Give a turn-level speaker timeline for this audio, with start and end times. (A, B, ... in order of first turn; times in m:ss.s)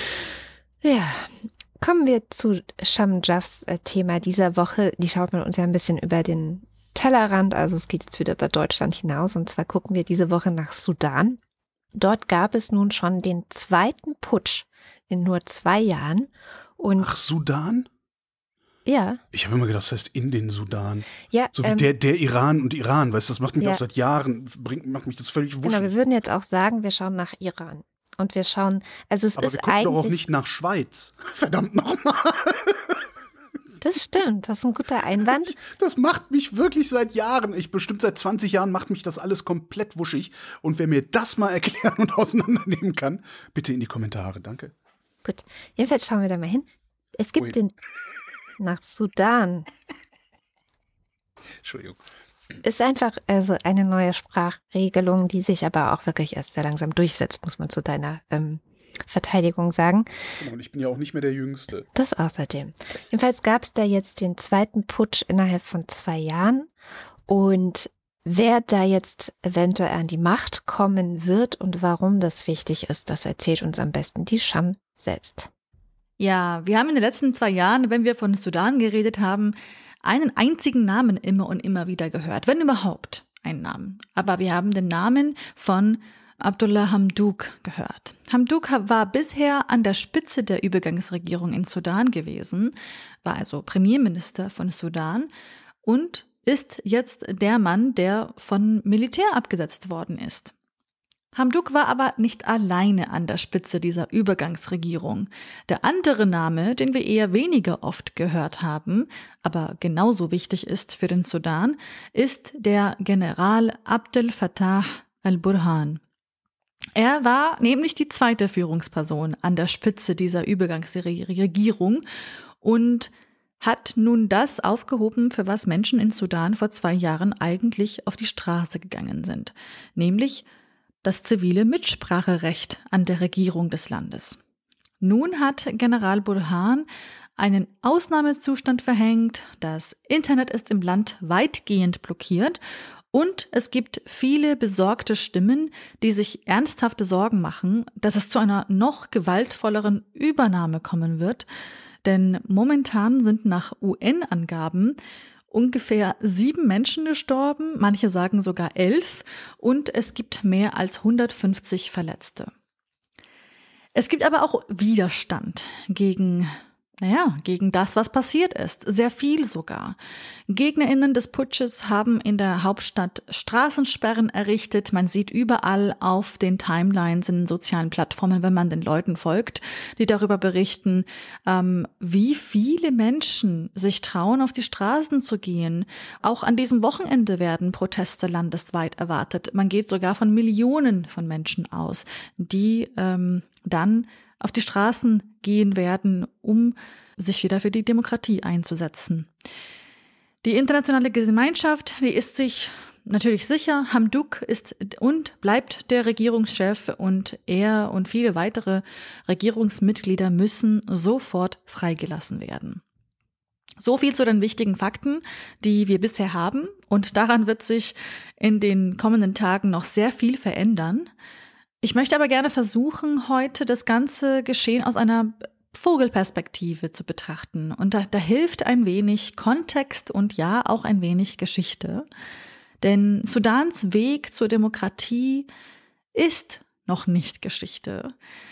0:00.8-0:11.4 A
0:11.9-0:17.1 A
0:17.0-0:17.9 B
0:18.8-0:19.2 A
0:19.3-0:25.9 B
0:21.3-0:21.9 A
0:25.6-0:30.2 A
0:29.4-0:33.0 B
0:33.8-0:35.6 A
0:35.5-0:44.7 B
0:45.2-0:47.7 A
0:48.6-0:49.7 A
0:51.6-0:52.0 B
0:52.6-1:00.1 A
1:00.4-1:01.8 B
1:01.9-1:06.7 A
1:07.3-1:15.5 A
1:16.2-1:32.7 C
1:33.2-1:35.3 C
1:35.8-1:40.5 C
1:41.3-1:56.0 C
1:57.0-2:02.0 C
2:02.6-2:10.4 C
2:11.0-2:14.4 C
2:15.0-2:16.8 C
2:17.4-2:22.6 C
2:23.1-2:31.4 C
2:32.0-2:35.0 C
2:35.5-2:42.5 C
2:43.9-2:50.0 C
2:50.5-3:19.3 C
3:20.4-3:32.8 C
3:33.8-3:41.1 C
3:41.8-3:52.0 C
3:52.8-3:55.5 C
3:56.1-3:58.1 C